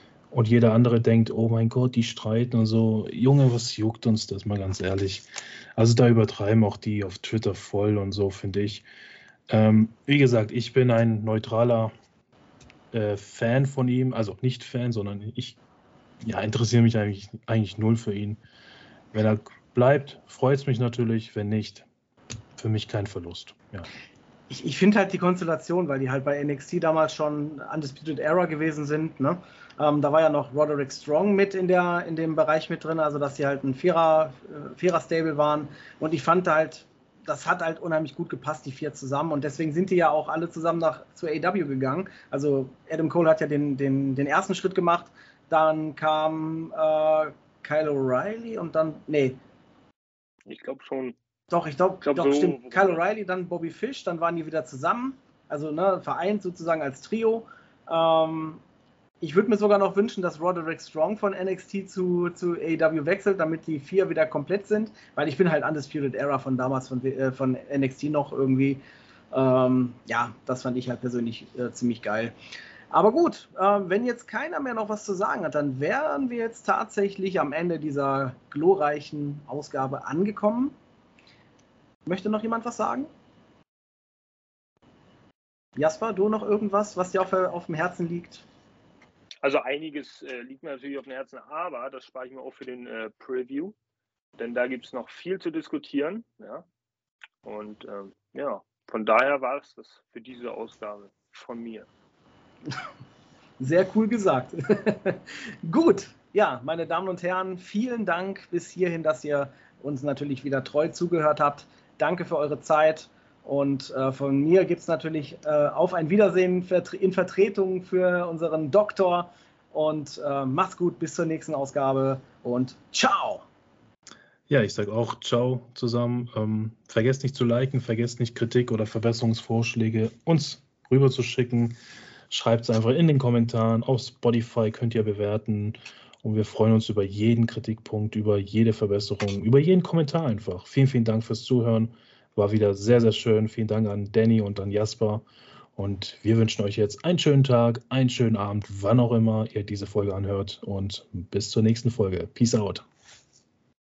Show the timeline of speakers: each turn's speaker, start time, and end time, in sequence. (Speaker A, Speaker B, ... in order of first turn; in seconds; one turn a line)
Speaker A: 0.3-8.8
Speaker A: 9.5-11.9
Speaker A: 12.9-15.6
Speaker A: 16.2-18.4
Speaker A: 19.1-21.9
Speaker A: 22.6-23.9
Speaker B: 24.5-49.4
Speaker C: 50.5-51.1
Speaker B: 51.5-58.6
Speaker C: 52.0-53.0
Speaker B: 59.2-68.8
Speaker B: 69.3-72.3
Speaker B: 72.9-80.8
Speaker B: 82.0-83.1
Speaker B: 85.8-88.4
Speaker C: 89.4-93.7
Speaker C: 94.4-96.7
Speaker C: 97.4-101.9
Speaker B: 103.6-123.4
Speaker A: 124.5-131.8
Speaker A: 132.3-145.2
Speaker A: 145.8-152.8